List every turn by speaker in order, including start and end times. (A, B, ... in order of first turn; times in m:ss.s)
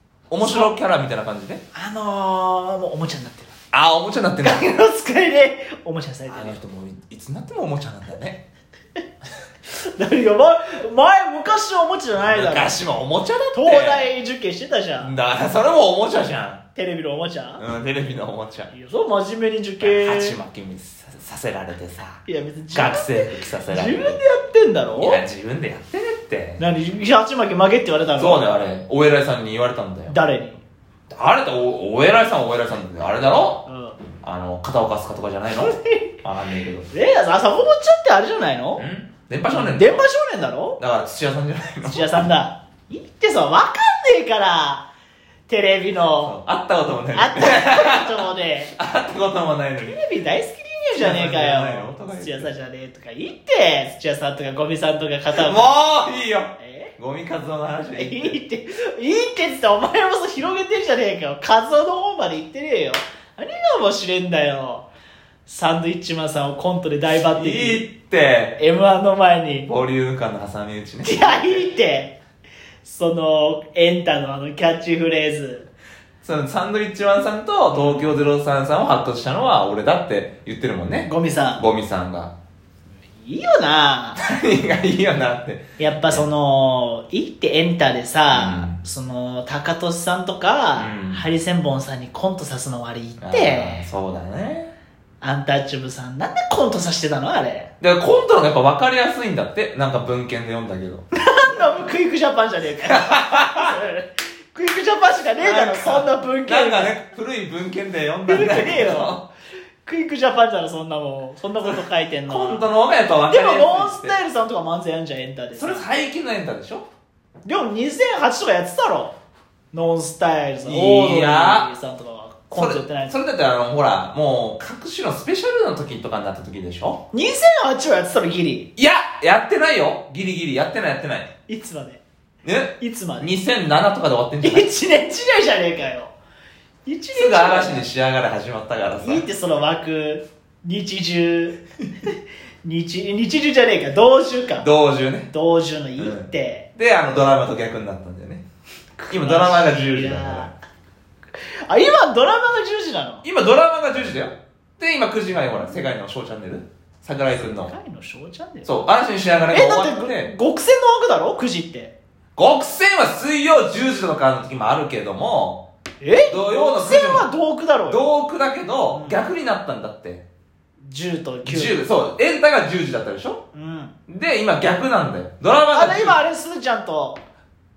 0:00.3-0:01.6 A
0:00.4-0:00.7 B
0:01.7-0:03.5 B
0:03.7-0:04.7 A
0:04.4-0:06.6 B
0:06.3-0:08.4 A
0:09.8-0:12.7 B
0:12.2-0:14.1 A
0:13.5-0:15.1 B
0:15.0-0:16.6 A
0:16.7-0:17.6 B
0:17.6-0:18.7 A
0:18.7-0:20.4 B
0:19.8-0:24.2 A
0:22.2-0:25.2 B
0:24.9-0:26.6 A
0:26.6-0:28.4 B
0:28.2-0:30.2 A
0:30.1-0:30.6 B
0:31.1-0:33.6 A
0:33.7-0:34.0 B
0:34.2-0:36.9 A
0:35.6-0:36.1 B
0:36.9-0:38.8 B
0:38.8-0:40.0 A
0:39.5-0:40.8 B
0:40.8-0:42.2 A
0:41.8-0:44.8 B
0:45.5-0:46.3 B
0:46.2-0:48.2 A
0:47.1-0:48.7 B
0:48.8-0:50.0 A
0:49.8-0:55.8 B
0:50.9-0:52.5 A
0:55.4-0:58.4 A
0:56.6-0:56.9 B
0:57.9-1:04.9 B
1:05.4-1:07.8 B
1:07.1-1:08.6 A
1:08.6-1:09.7 B
1:09.6-1:11.6 A
1:11.0-1:12.2 B
1:12.8-1:15.7 B
1:16.2-1:22.3 A
1:17.7-1:18.2 B
1:21.0-1:21.6 B
1:23.2-1:24.2 B
1:24.2-1:26.2 A
1:25.8-1:33.8 B
1:28.3-1:28.8 A
1:30.8-1:31.2 A
1:33.2-1:34.7 A
1:35.2-1:37.7 B
1:37.8-1:41.0 A
1:41.1-1:47.0 B
1:42.9-1:43.8 A
1:45.4-1:49.2 A
1:48.3-1:49.2 B
1:49.8-1:52.7 B
1:52.3-1:54.1 A
1:53.3-1:55.8 B
1:55.5-1:56.9 A
1:57.4-1:59.1 B
1:59.7-2:03.1 B
2:00.6-2:01.7 A
2:02.5-2:07.0 A
2:07.1-2:08.7 B
2:08.8-2:11.3 A
2:11.5-2:12.0 B
2:12.4-2:14.7 A
2:12.8-2:13.3 B
2:14.4-2:16.1 B
2:16.8-2:17.8 B
2:17.1-2:19.2 A
2:19.0-2:21.6 B
2:22.6-2:24.7 B
2:24.6-2:25.3 A
2:25.3-2:26.7 B
2:26.0-2:28.4 A
2:29.0-2:30.5 B
2:29.1-2:30.5 A
2:31.7-2:33.2 B
2:33.2-2:37.7 A
2:37.4-2:38.7 B
2:38.6-2:40.3 A
2:39.5-2:41.9 B
2:42.4-2:45.6 A
2:46.0-2:48.0 B
2:46.3-2:47.3 A
2:47.8-2:50.2 A
2:48.9-2:49.2 B
2:50.8-2:51.8 B
2:51.4-2:53.4 A
2:53.5-2:53.9 B
2:54.1-2:56.2 A
2:55.7-2:57.2 B